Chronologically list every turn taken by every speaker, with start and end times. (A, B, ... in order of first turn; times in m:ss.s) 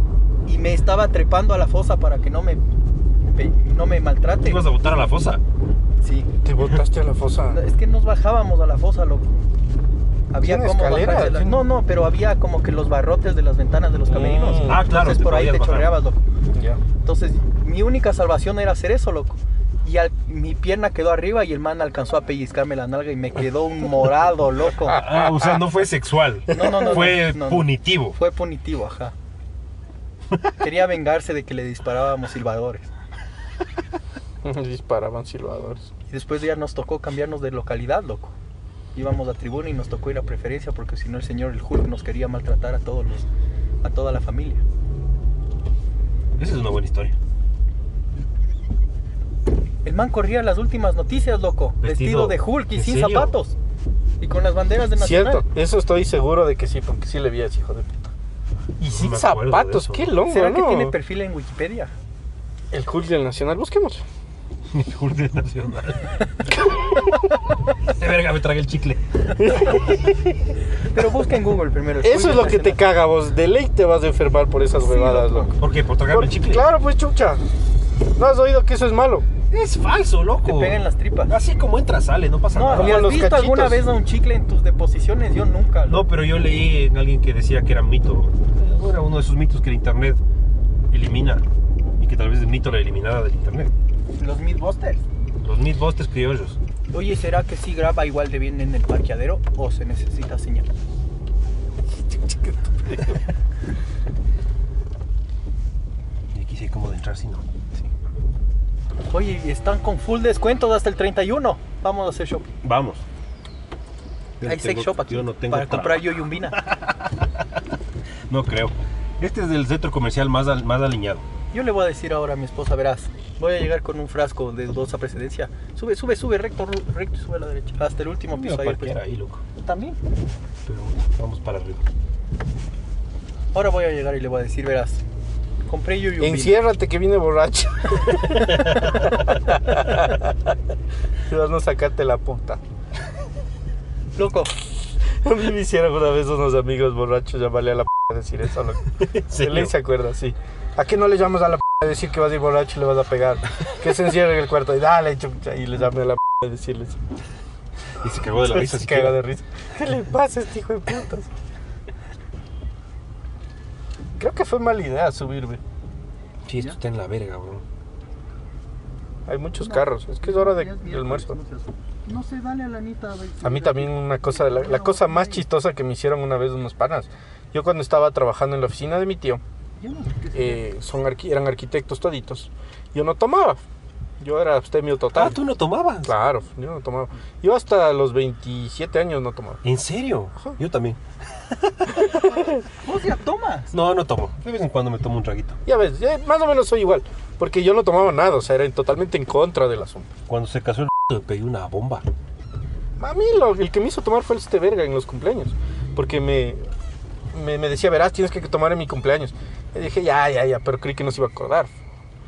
0:00.5-0:02.6 A
0:03.3-0:04.6 A
0:04.4-0:05.4 B
0:06.0-0:06.3 A
0:06.4-0:07.6 C
0:07.5-0:09.4 A
0:10.3-0:16.3 A
0:10.4-0:11.6 C
0:14.1-0:14.9 C
0:14.6-0:16.0 B
0:16.5-0:16.8 C
0:17.0-0:25.0 A
0:24.9-0:25.6 C
0:24.9-0:28.2 B
0:26.5-0:29.1 A
0:26.5-0:27.1 C
0:30.6-0:32.9 A
0:34.4-0:35.9 C
0:36.1-0:38.4 A
0:39.0-0:43.3 A
0:43.8-0:44.6 A
0:46.4-0:47.1 B
0:49.8-0:53.6 A
0:51.8-0:53.3 B
0:54.2-0:55.4 A
0:55.0-0:58.1 C
0:58.8-1:01.0 C
0:58.9-1:00.1 B
1:00.3-1:01.9 A
1:02.7-1:04.0 C
1:04.7-1:06.1 B
1:06.6-1:06.9 C
1:07.9-1:09.0 B
1:09.4-1:10.6 C
1:09.5-1:09.8 A
1:10.9-1:12.8 A
1:12.0-1:15.5 C
1:14.8-1:15.6 A
1:15.6-1:16.7 B
1:16.1-1:17.4 C
1:18.2-1:19.3 C
1:19.5-1:23.1 B
1:20.4-1:21.4 A
1:22.5-1:26.1 A
1:22.7-1:23.9 C
1:25.9-1:30.2 B
1:30.9-1:31.4 B
1:32.0-1:33.7 B
1:34.2-1:35.0 A
1:35.4-1:36.6 B
1:36.9-1:40.7 A
1:42.1-1:43.2 C
1:46.3-1:47.4 B
1:49.1-1:52.5 A
1:52.6-1:53.0 B
1:54.4-1:56.7 B
1:54.4-1:56.6 A
1:58.3-2:01.2 B
2:01.5-2:09.0 A
2:08.3-2:09.4 B
2:09.6-2:10.0 A
2:10.6-2:11.8 B
2:13.5-2:15.0 A
2:15.7-2:16.6 A
2:16.2-2:20.6 C
2:18.6-2:19.1 B
2:21.3-2:22.6 C
2:24.2-2:24.5 A
2:25.2-2:37.0 C
2:29.0-2:29.7 B
2:38.0-2:39.2 B
2:38.4-2:41.3 C
2:44.2-2:45.6 C
2:46.5-2:47.6 B
2:49.3-2:51.4 C
2:49.6-2:55.5 A
2:53.4-2:59.4 C
2:59.8-3:00.6 A
3:00.3-3:03.6 C
3:04.2-3:05.4 C
3:05.2-3:06.1 B
3:06.0-3:09.6 C
3:09.6-3:11.0 B
3:12.0-3:12.6 C
3:12.8-3:13.7 A
3:13.7-3:15.6 B
3:15.7-3:20.1 C
3:20.3-3:22.0 B
3:23.0-3:26.6 C
3:27.3-3:31.7 C